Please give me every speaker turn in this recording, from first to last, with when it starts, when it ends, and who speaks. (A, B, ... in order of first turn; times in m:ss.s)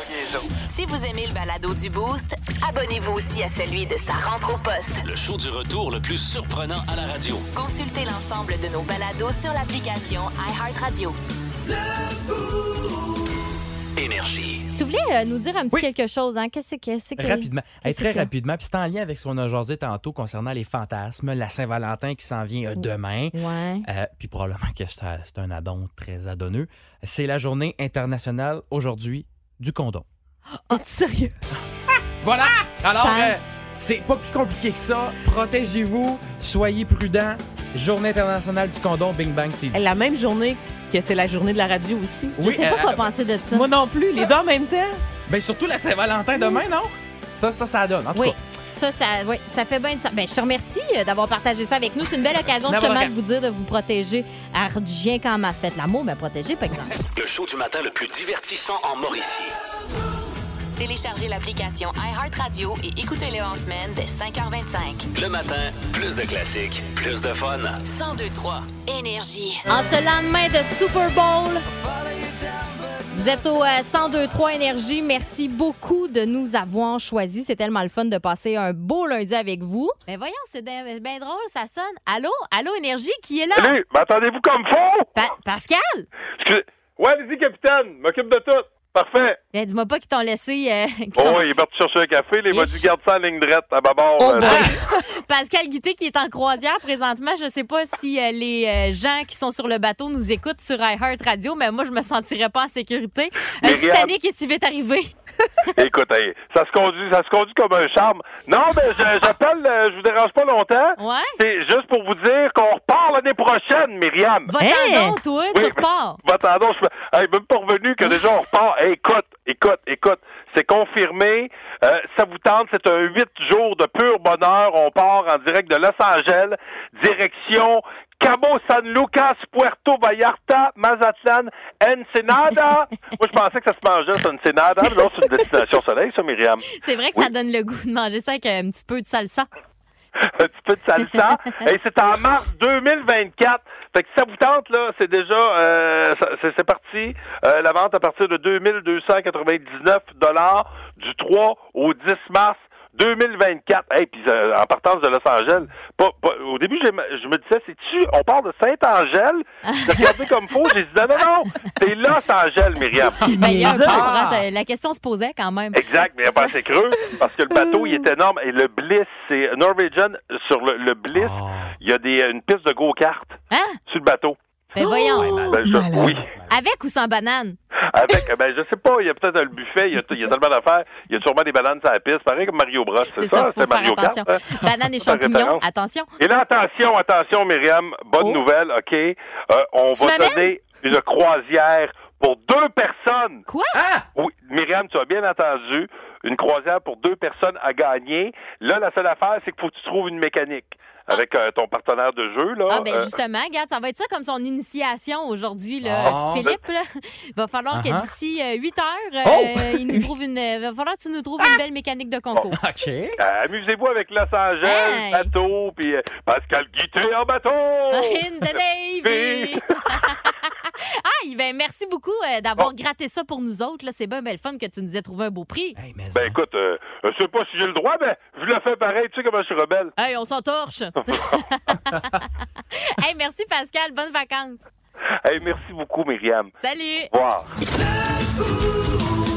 0:00.7-0:05.0 A
0:05.0-0:07.5 B
0:07.5-0:11.2 A
0:14.0-0:14.7 B
0:14.8-0:18.3 C
0:17.2-0:30.0 D
0:22.8-0:23.9 C
0:30.7-0:31.4 E
0:32.2-0:39.8 D
0:32.8-0:33.4 C
0:39.7-0:42.4 E
0:42.4-0:43.1 D
0:42.4-0:43.7 C
0:43.5-0:45.0 E
0:45.3-0:48.4 D
0:48.1-0:56.9 C
0:52.6-0:53.1 D
0:57.2-0:59.5 B
1:00.8-1:05.1 A
1:05.1-1:07.8 B
1:07.8-1:09.6 A
1:09.7-1:11.7 C
1:13.1-1:23.8 C
1:23.6-1:25.1 F
1:25.2-1:26.1 C
1:26.4-1:29.4 F
1:29.5-1:31.5 C
1:31.2-1:34.6 F
1:32.5-1:32.9 C
1:34.2-1:34.7 E
1:34.3-1:45.1 C
1:43.6-1:44.1 F
1:45.8-1:54.5 F
1:51.0-1:51.4 C
1:54.5-1:56.2 C
1:54.6-1:55.2 E
1:55.5-2:17.3 F
2:16.8-2:19.5 C
2:20.4-2:43.2 F
2:39.7-2:40.0 C
2:43.2-2:44.4 D
2:43.3-2:44.1 E
2:43.3-2:46.5 C
2:45.7-2:54.4 F
2:51.1-2:51.8 D
2:53.5-2:53.8 C
2:54.8-2:55.5 C
2:55.2-2:56.5 D
2:55.5-2:56.3 F
2:56.5-2:57.6 C
2:57.9-3:04.4 F
3:03.2-3:06.1 C
3:05.0-3:05.6 F
3:06.2-3:13.4 F
3:10.0-3:10.5 C
3:13.5-3:13.8 C
3:13.7-3:14.1 D
3:14.2-3:23.1 F
3:22.7-3:32.6 C
3:25.8-3:26.5 D
3:26.0-3:26.5 F
3:27.7-3:28.1 D
3:29.2-3:30.1 D
3:32.5-3:33.2 D
3:33.2-3:38.2 F
3:34.6-3:35.3 C
3:37.9-3:45.8 C
3:39.0-3:40.0 F
3:45.8-3:46.4 D
3:46.1-3:49.9 F
3:50.0-3:52.2 C
3:52.9-3:54.7 C
3:55.2-3:56.5 F
3:56.6-3:57.1 C
3:57.1-3:57.5 F